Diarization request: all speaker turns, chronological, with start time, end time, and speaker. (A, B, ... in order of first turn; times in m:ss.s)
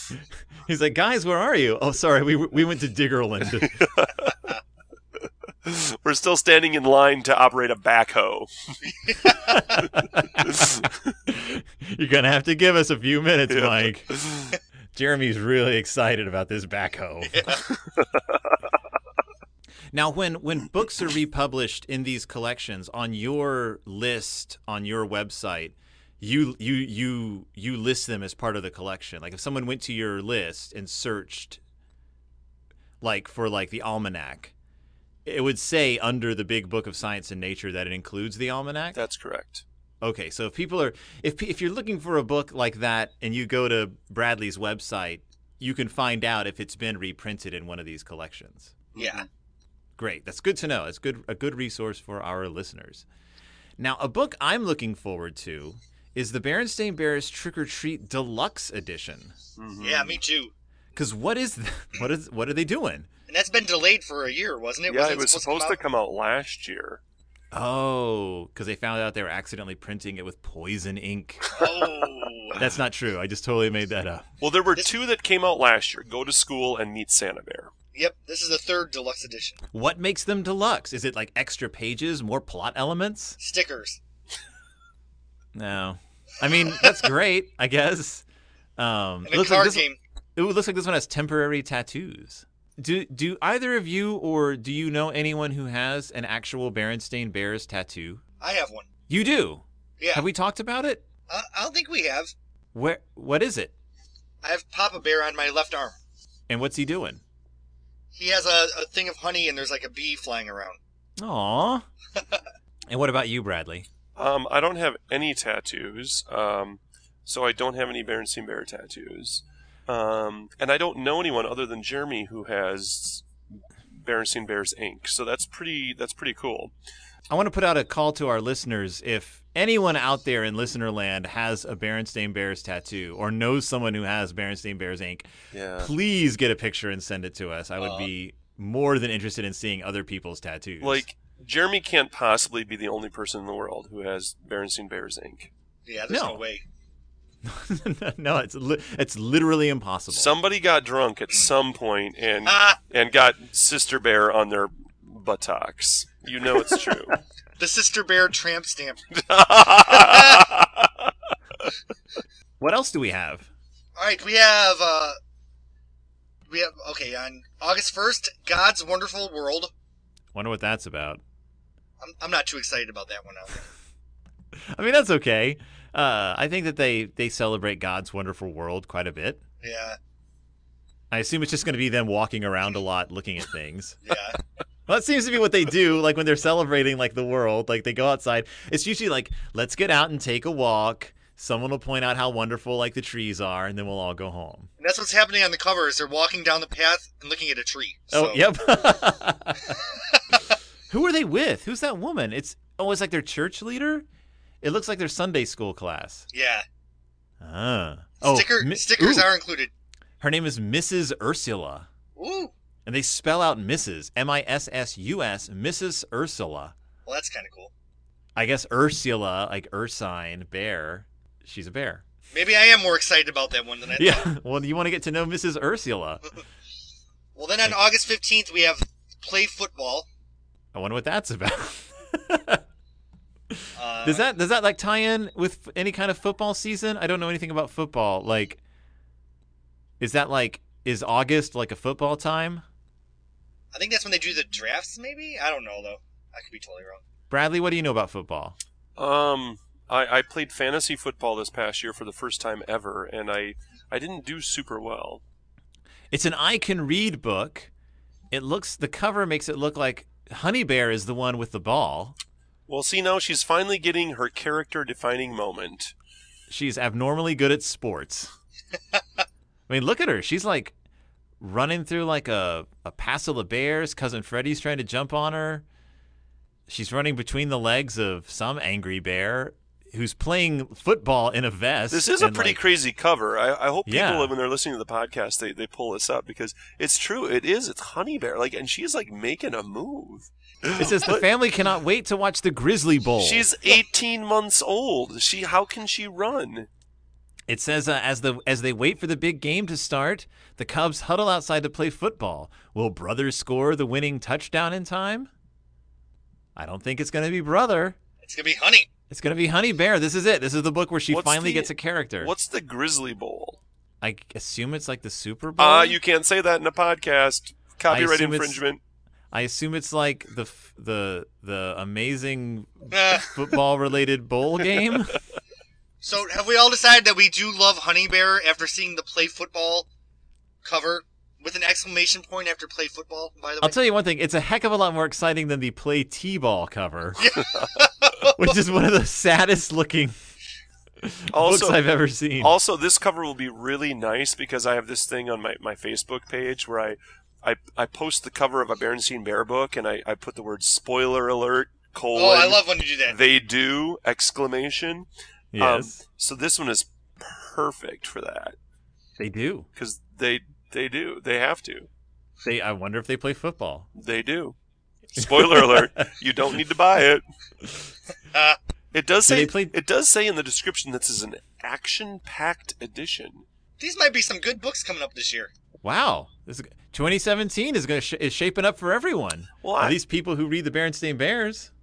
0:00.6-0:03.8 A
0:03.6-0:04.4 B
0:05.6-0:08.5 B
0:08.8-0:09.8 C
0:09.4-0:14.1 A
0:10.4-0:11.0 B
0:13.5-0:14.6 B
0:14.9-0:17.6 A
0:17.3-0:17.6 C
0:17.7-0:18.5 B
0:19.9-0:31.6 A
0:33.0-0:34.5 A
0:35.2-0:39.0 A
0:38.9-0:39.6 B
0:40.0-0:48.7 A
0:48.9-0:49.3 B
0:49.0-0:49.2 C
0:50.0-0:53.0 A
0:53.8-0:59.4 A
0:59.6-1:00.2 B
0:59.8-1:00.5 C
1:00.9-1:03.1 A
1:03.3-1:05.8 C
1:04.9-1:07.0 B
1:07.5-1:11.6 A
1:11.5-1:12.6 C
1:12.6-1:14.2 A
1:14.4-1:17.7 B
1:17.9-1:19.6 C
1:19.7-1:23.4 A
1:23.4-1:24.0 C
1:25.5-1:28.2 A
1:28.8-1:29.8 A
1:29.2-1:30.0 C
1:30.4-1:38.2 A
1:38.4-1:38.9 C
1:39.1-1:41.0 A
1:40.0-1:40.2 C
1:41.3-1:42.3 C
1:42.7-1:43.7 A
1:44.4-1:46.0 C
1:46.5-1:47.2 A
1:48.1-1:50.8 C
1:51.2-1:51.8 A
1:52.1-1:52.4 C
1:52.9-1:53.9 A
1:54.2-2:03.2 B
2:03.9-2:06.7 B
2:07.3-2:15.3 A
2:15.5-2:15.9 B
2:15.8-2:21.0 A
2:17.8-2:18.1 C
2:20.8-2:25.5 B
2:25.8-2:26.6 C
2:26.1-2:26.4 A
2:27.4-2:30.3 A
2:30.1-2:37.2 B
2:32.4-2:32.8 C
2:37.6-2:39.1 C
2:39.1-2:41.1 B
2:39.8-2:40.5 C
2:42.6-2:43.5 A
2:44.0-2:45.2 C
2:46.5-2:49.7 C
2:50.3-2:51.2 A
2:52.0-2:53.6 C
2:54.7-2:59.4 A
2:59.6-3:00.0 C
3:01.1-3:04.1 A
3:04.0-3:04.4 C
3:04.9-3:14.7 A
3:14.8-3:18.4 C
3:18.1-3:19.8 A
3:19.9-3:20.4 C
3:20.9-3:24.0 A
3:24.6-3:26.3 A
3:26.3-3:26.6 C
3:27.4-3:29.3 A
3:28.2-3:29.7 C
3:30.2-3:31.9 A
3:32.2-3:32.5 C
3:32.8-3:36.7 A
3:37.0-3:37.7 C
3:38.4-3:42.0 A
3:42.3-3:44.3 C
3:44.0-3:46.2 A
3:47.4-3:50.1 C
3:50.7-3:52.6 A
3:53.5-3:58.6 A
3:53.8-3:54.2 C
4:00.0-4:02.6 A
4:03.7-4:07.0 C
4:07.3-4:08.6 A
4:09.0-4:15.2 B
4:16.1-4:17.7 A
4:18.3-4:22.2 A
4:22.7-4:25.9 B
4:26.5-4:28.3 A
4:29.7-4:30.7 A
4:31.4-4:35.6 A
4:36.7-4:42.6 A
4:41.9-4:51.2 B
4:43.8-4:44.3 A
4:50.7-4:53.5 A
4:53.2-4:56.7 B
4:57.5-5:05.3 A
5:06.6-5:08.0 A
5:08.2-5:08.9 C
5:09.1-5:12.3 A
5:11.1-5:13.6 B
5:14.0-5:16.0 A
5:15.6-5:18.8 B
5:17.9-5:18.6 A
5:19.3-5:25.2 A
5:22.9-5:23.3 C
5:26.0-5:29.9 C
5:30.6-5:33.8 C
5:33.6-5:37.3 A
5:37.2-5:38.6 C
5:38.3-5:40.1 A
5:41.0-5:42.5 A
5:41.3-5:58.6 B
5:52.1-5:53.2 C
5:55.5-5:56.0 A
5:59.2-5:59.7 A
5:59.8-6:01.9 B
6:02.4-6:03.9 A
6:04.0-6:04.6 B
6:05.1-6:07.2 B
6:05.2-6:06.0 A
6:08.3-6:08.6 C
6:08.9-6:13.4 B
6:09.3-6:09.7 A
6:13.8-6:15.5 C
6:15.8-6:21.7 A
6:19.6-6:20.0 B